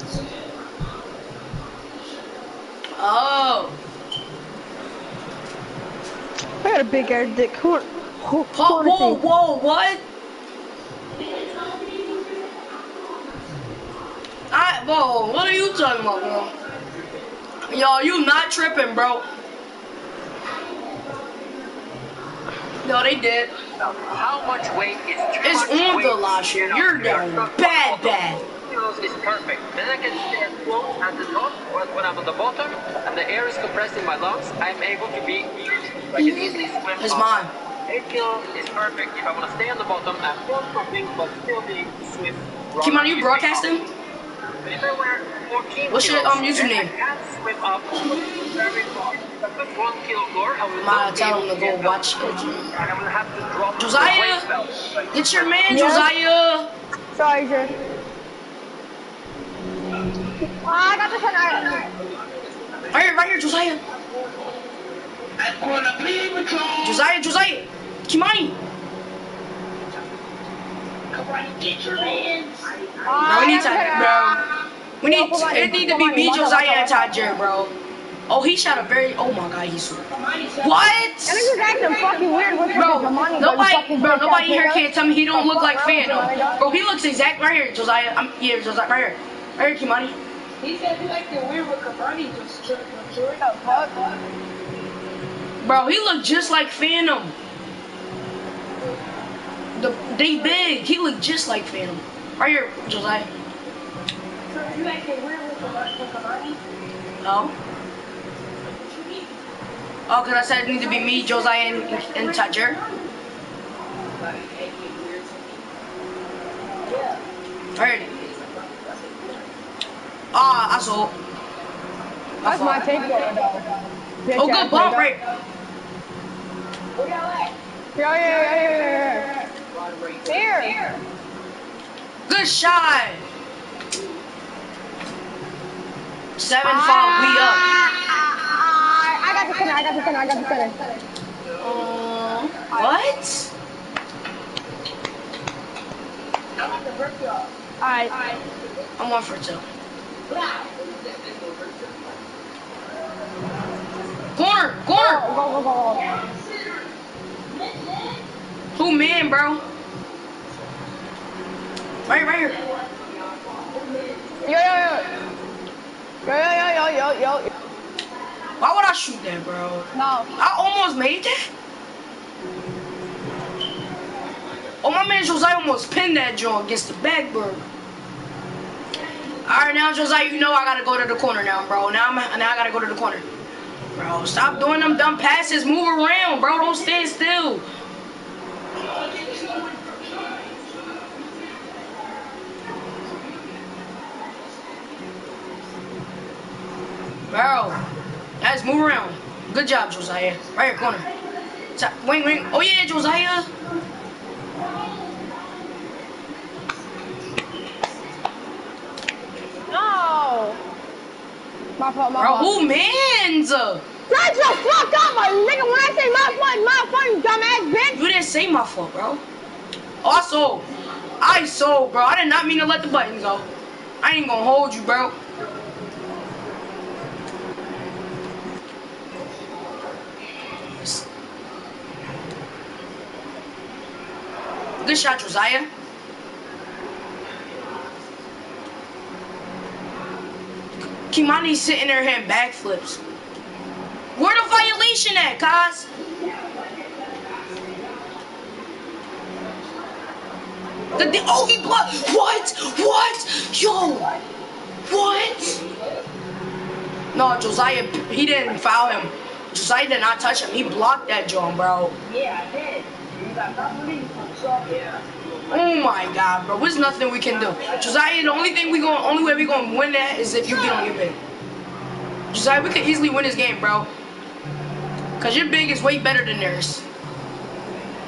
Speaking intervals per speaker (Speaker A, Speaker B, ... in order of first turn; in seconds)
Speaker A: 3.0-3.8, 8.5-10.0, 14.5-16.5, 17.7-19.2, 22.8-23.5, 25.4-28.4, 37.0-37.5, 42.8-43.8, 45.9-46.9, 50.8-52.6, 53.8-54.5, 55.1-56.7, 62.9-63.8, 66.8-68.6, 73.2-74.4, 75.0-77.7, 78.3-80.0, 80.6-81.5, 82.7-90.2, 95.6-97.3, 99.7-103.3, 107.2-107.5, 110.1-112.8, 117.8-118.1, 120.3-121.2, 122.4-122.9, 124.3-125.2, 132.3-133.2, 136.4-137.7, 141.6-143.5, 149.0-149.6, 154.3-155.2, 158.8-159.6, 162.1-162.6, 168.6-171.5, 174.8-177.6, 179.4-183.2, 183.9-187.6, 197.3-197.8, 198.4-201.0, 201.8-203.5, 212.2-213.8, 217.9-219.2, 220.0-220.6, 221.2-223.4, 224.0-225.2, 234.8-235.7, 241.1-243.0, 244.1-245.9, 250.9-254.1, 254.9-255.6, 257.1-261.9, 265.5-271.1, 272.3-273.9, 275.2-276.8
Speaker B: 6.6-9.2, 55.7-56.1, 57.1-57.7, 60.6-61.9, 73.0-74.4, 75.0-77.3, 81.3-86.6, 93.4-93.9, 122.4-123.6, 124.2-125.1, 128.0-129.3, 130.3-130.8, 136.6-140.8, 147.8-148.1, 154.9-156.0, 164.4-165.1, 166.2-167.5, 169.9-170.3, 209.7-210.6, 211.8-212.6, 214.1-218.0
Speaker C: 27.4-27.9, 29.2-29.8, 31.0-35.3, 36.2-37.3, 38.8-39.3, 42.8-43.4, 45.8-46.7, 50.4-51.7, 52.8-54.7
Speaker D: 61.6-61.9, 65.5-66.8, 71.1-74.0, 80.1-80.9, 81.5-83.3, 85.9-86.6, 90.6-94.2, 104.5-106.6, 108.6-109.3, 110.6-113.0, 114.2-115.7, 116.8-117.2, 118.0-119.5, 122.8-123.7, 127.0-127.5, 128.1-131.0, 139.4-141.0, 142.6-142.9, 146.6-147.5, 148.1-148.5, 150.3-152.0, 155.9-156.8, 157.6-158.1, 163.6-164.4, 188.9-190.6, 191.4-191.7, 262.0-265.0, 267.5-268.5